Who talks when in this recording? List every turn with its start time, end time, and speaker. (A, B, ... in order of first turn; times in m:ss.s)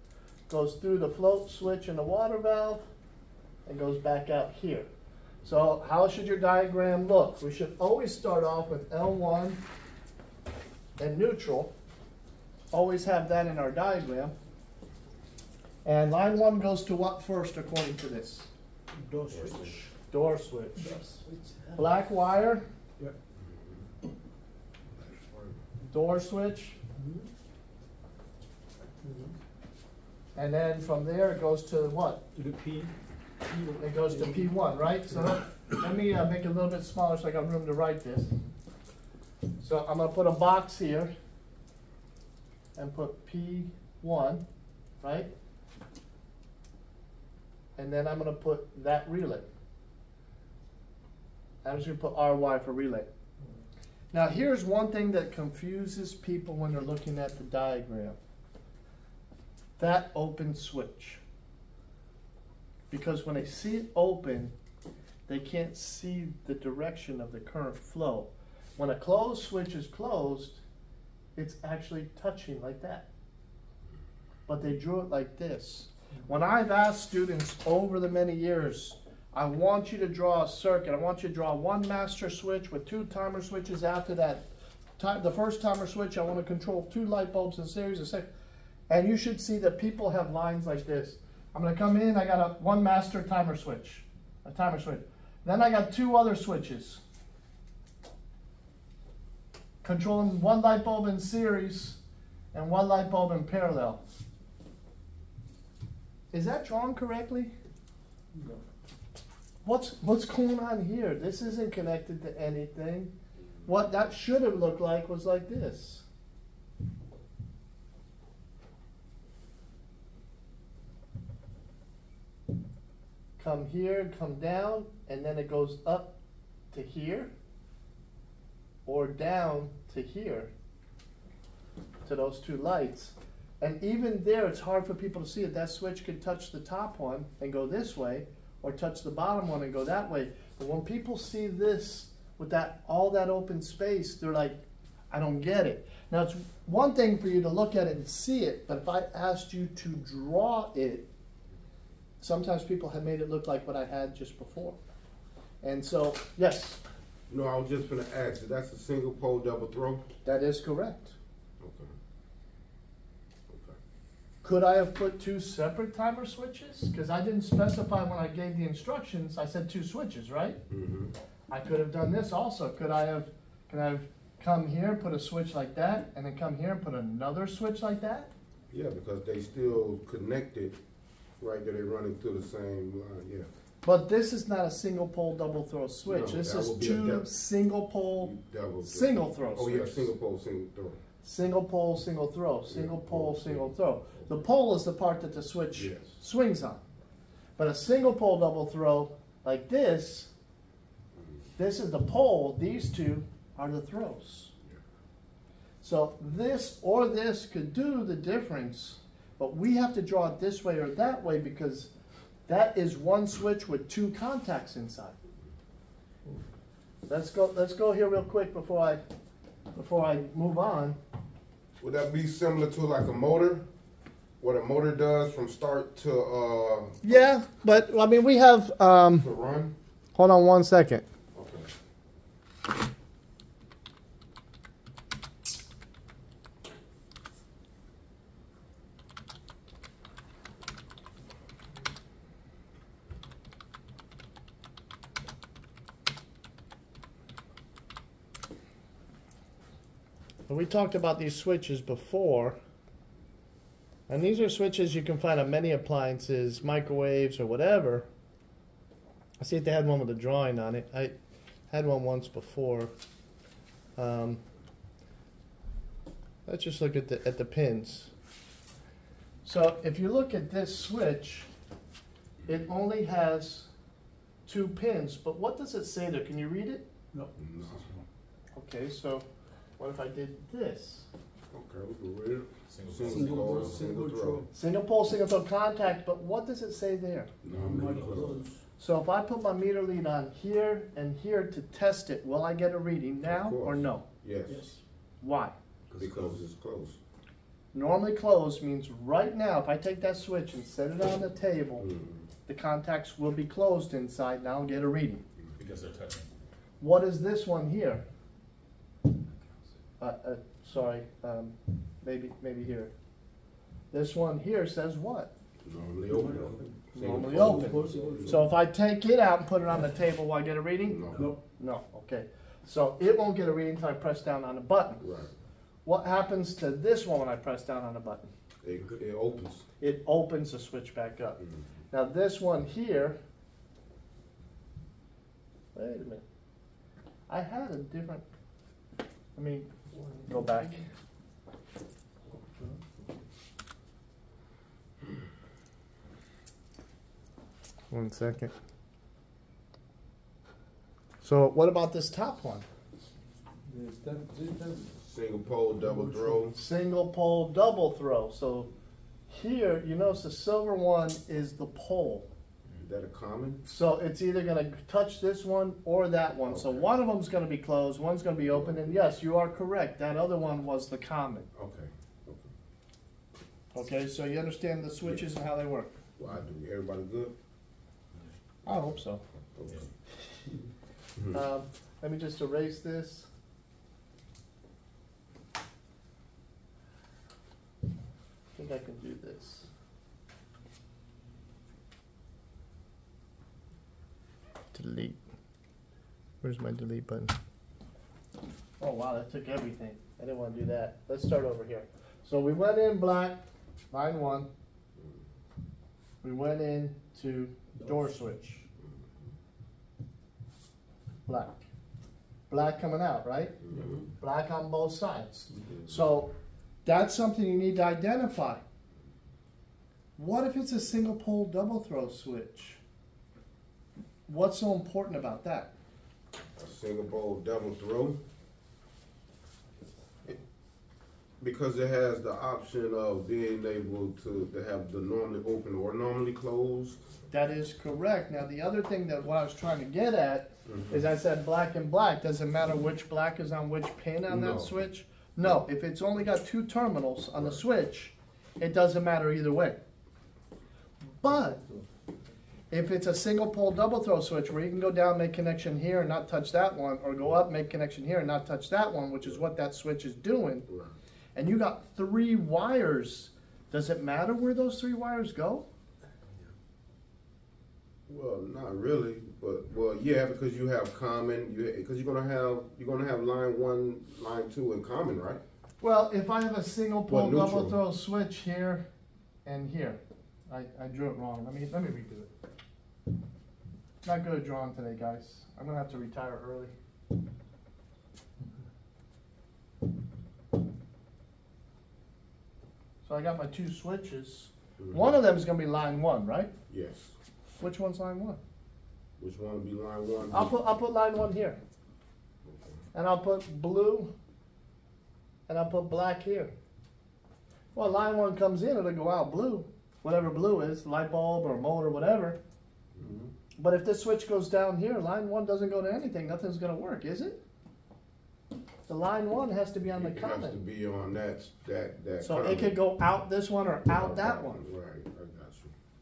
0:00.5-0:02.8 A
0:03.6-0:04.9 A
0:05.4-0:09.6 A
0:11.0-0:11.7 A
0:12.7-0:14.3 A
0:15.8-0:18.5 A
0:19.0-0:19.8 B
0:19.3-0:19.7 C
0:19.3-0:21.0 A
0:20.8-0:21.8 B
0:21.8-0:22.6 A
0:23.4-0:23.8 C
0:25.0-0:25.6 C
0:25.8-0:26.8 A
0:26.9-0:27.3 B
0:29.0-0:29.3 B
0:30.4-0:32.2 A
0:32.3-0:32.9 B
0:33.4-0:34.5 B
0:33.8-0:38.3 A
0:39.6-0:41.1 A
0:42.7-0:44.4 A
0:45.0-0:45.3 A
0:47.8-0:49.5 A
0:51.6-0:53.1 A
0:54.1-0:58.2 A
0:59.8-1:01.2 A
1:02.9-1:04.5 A
1:05.3-1:10.6 A
1:11.4-1:13.1 A
1:14.5-1:24.4 A
1:25.0-1:28.3 A
1:28.9-1:37.0 A
1:39.8-1:42.0 A
1:42.5-1:44.0 A
1:46.3-1:47.5 A
1:48.3-1:48.6 B
1:49.6-1:53.1 A
1:53.6-1:56.0 A
2:03.4-2:06.2 A
2:06.7-2:07.3 A
2:08.8-2:10.5 A
2:12.0-2:31.1 A
2:32.2-2:34.8 A
2:35.6-2:36.8 A
2:37.3-2:40.1 C
2:40.2-2:41.2 A
2:41.6-2:41.9 C
2:43.5-2:43.8 C
2:44.4-2:50.6 A
2:50.7-2:51.1 C
2:51.5-2:58.3 A
2:58.7-3:00.8 C
3:01.4-3:03.5 C
3:03.8-3:08.3 A
3:06.0-3:07.3 C
3:08.2-3:11.0 C
3:08.8-3:10.1 A
3:11.2-3:16.8 A
3:12.7-3:14.3 C
3:15.7-3:16.2 C
3:17.6-3:20.3 A
3:21.6-3:24.5 A
3:25.8-3:31.9 A
3:32.5-3:35.2 A
3:37.1-3:39.0 A
3:39.7-3:41.0 A
3:41.8-3:43.6 C
3:44.4-3:47.2 C
3:47.0-3:49.3 A
3:49.1-3:49.7 C
3:50.1-3:51.0 A
3:51.3-3:51.7 C
4:10.5-4:12.6 A
4:14.1-4:18.1 A
4:19.4-4:21.1 A
4:21.7-4:22.9 A
4:24.0-4:24.4 A
4:26.4-4:28.1 A
4:29.4-4:31.5 A
4:32.5-4:33.7 A
4:34.4-4:36.8 A
4:37.1-4:38.0 B
4:37.4-4:37.8 C
4:38.5-4:39.2 A
4:39.8-4:41.1 A
4:41.5-4:44.5 C
4:42.7-4:43.9 D
4:43.0-4:44.5 B
4:44.5-4:47.3 A
4:47.4-4:48.6 C
4:47.5-4:48.6 B
4:48.8-4:54.0 A
4:53.2-4:54.8 C
4:54.5-4:54.8 B
4:55.2-4:55.5 A
4:55.9-4:56.4 B
4:56.0-4:57.0 C
4:57.7-5:01.9 A
5:01.8-5:02.3 C
5:02.4-5:05.2 A
5:05.6-5:06.3 D
5:06.8-5:08.0 A
5:10.0-5:12.9 A
5:13.9-5:15.3 A
5:15.6-5:18.5 C
5:16.0-5:18.5 B
5:16.9-5:21.0 A
5:20.8-5:21.4 C
5:21.1-5:21.4 B
5:21.6-5:25.0 A
5:25.0-5:25.3 C
5:25.8-5:28.3 A
5:28.6-5:29.6 C
5:29.8-5:33.2 A
5:31.4-5:31.7 C
5:35.7-5:36.2 A
5:37.3-5:38.2 A
5:39.4-5:39.7 A
5:39.9-5:40.6 B
5:40.2-5:40.8 A
5:47.9-5:48.5 A
5:51.2-5:52.6 A
5:53.6-5:54.9 B
5:55.0-5:56.6 C
5:55.8-5:56.4 B
5:56.5-5:58.7 A
5:59.3-6:02.2 A
6:02.8-6:03.6 C
6:03.6-6:11.4 A
6:06.4-6:06.9 C
6:08.5-6:09.1 C
6:11.5-6:12.5 C
6:13.7-6:16.0 A
6:16.2-6:17.3 C
6:18.6-6:19.2 A
6:19.5-6:19.8 C
6:21.3-6:23.3 A
6:28.6-6:29.7 A
6:34.7-6:35.2 A
6:36.4-6:37.3 A
6:38.8-6:44.5 A
6:46.2-6:48.6 A
6:47.8-6:48.0 B
6:48.8-6:49.1 C
6:51.3-6:51.6 A
6:52.5-6:53.6 A
6:53.6-6:54.1 C
6:54.2-6:56.3 A
6:55.7-6:56.0 C
6:56.8-6:58.6 A
7:00.2-7:02.8 A
7:04.3-7:05.7 A
7:06.6-7:08.2 C
7:11.4-7:17.1 C
7:17.3-7:29.8 A
7:20.6-7:21.1 C
7:24.3-7:24.7 C
7:31.1-7:31.6 A
7:31.3-7:31.8 B
7:32.7-7:40.7 A
7:40.7-7:40.9 C
7:41.3-7:45.6 A
7:48.1-7:55.4 C
7:55.8-7:58.8 A
7:57.1-7:57.8 C
7:59.4-8:02.3 A
8:04.0-8:06.7 A
8:13.0-8:16.5 A
8:14.8-8:15.2 C
8:16.7-8:17.2 C
8:17.6-8:18.4 A
8:19.2-8:20.5 C
8:20.3-8:21.6 A
8:22.4-8:22.8 C
8:22.9-8:24.1 A
8:25.5-8:26.5 A
8:27.7-8:32.4 A
8:33.0-8:33.3 C
8:33.6-8:37.4 A
8:38.9-8:40.6 A
8:39.9-8:42.8 C
8:42.2-8:44.6 A
8:43.9-8:45.7 C